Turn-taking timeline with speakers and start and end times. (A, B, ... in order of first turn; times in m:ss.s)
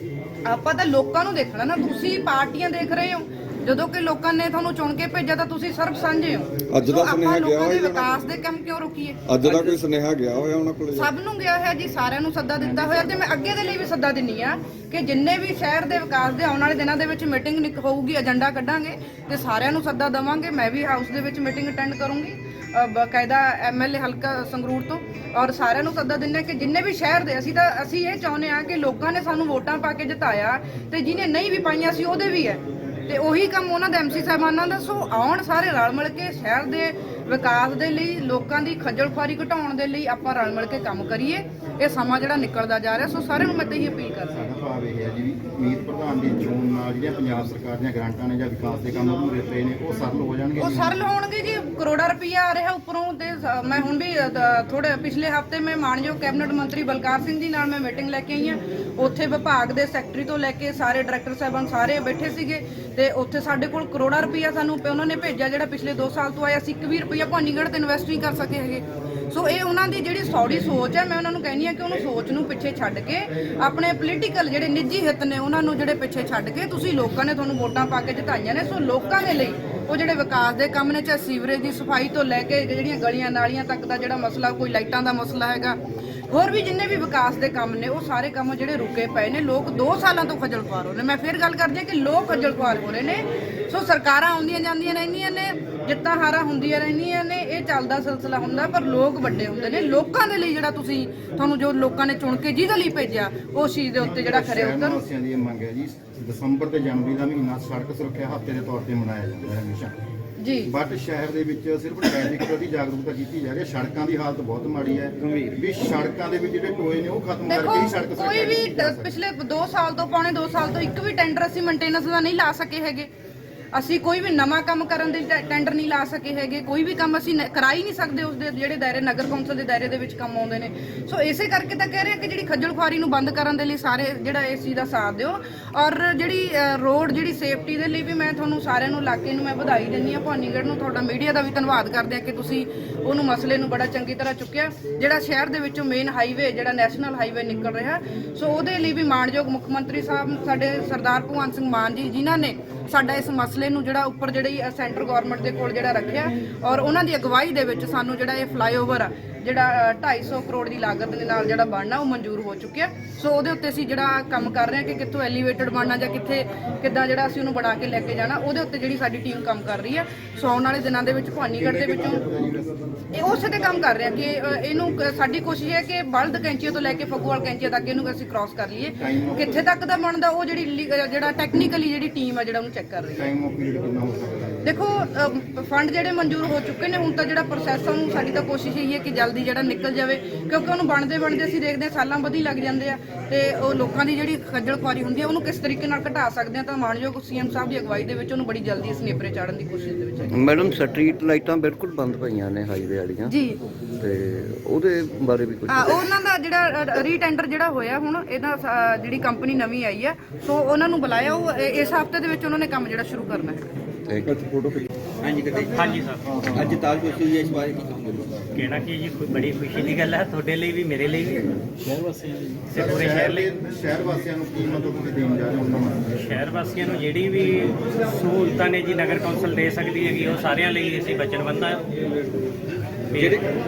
0:00.5-0:09.2 A
0:06.7-0:08.2 B
0:09.3-0:11.1 B
0:09.4-0:09.8 C
0:10.9-0:44.3 A
0:12.6-0:13.3 D
0:44.3-0:51.0 D
0:50.6-1:25.8 A
1:26.3-1:45.0 A
1:44.0-1:49.9 D
1:50.4-1:50.7 A
1:50.7-1:59.1 D
1:55.2-1:55.5 C
1:57.5-2:03.1 A
2:03.7-2:52.2 A
2:51.6-2:52.7 D
2:53.1-3:03.3 A
2:59.0-2:59.6 D
3:03.2-3:04.9 D
3:04.6-3:20.4 A
3:20.3-3:23.3 E
3:23.3-3:23.6 A
3:24.0-3:26.0 E
3:25.7-3:33.7 A
3:34.2-3:34.9 B
3:35.2-3:38.5 C
3:35.7-3:36.2 F
3:36.2-3:36.8 D
3:38.5-3:41.5 F
3:42.7-3:43.5 F
3:42.7-3:46.2 D
3:46.2-3:52.0 F
3:53.1-3:53.4 F
3:53.1-3:53.4 C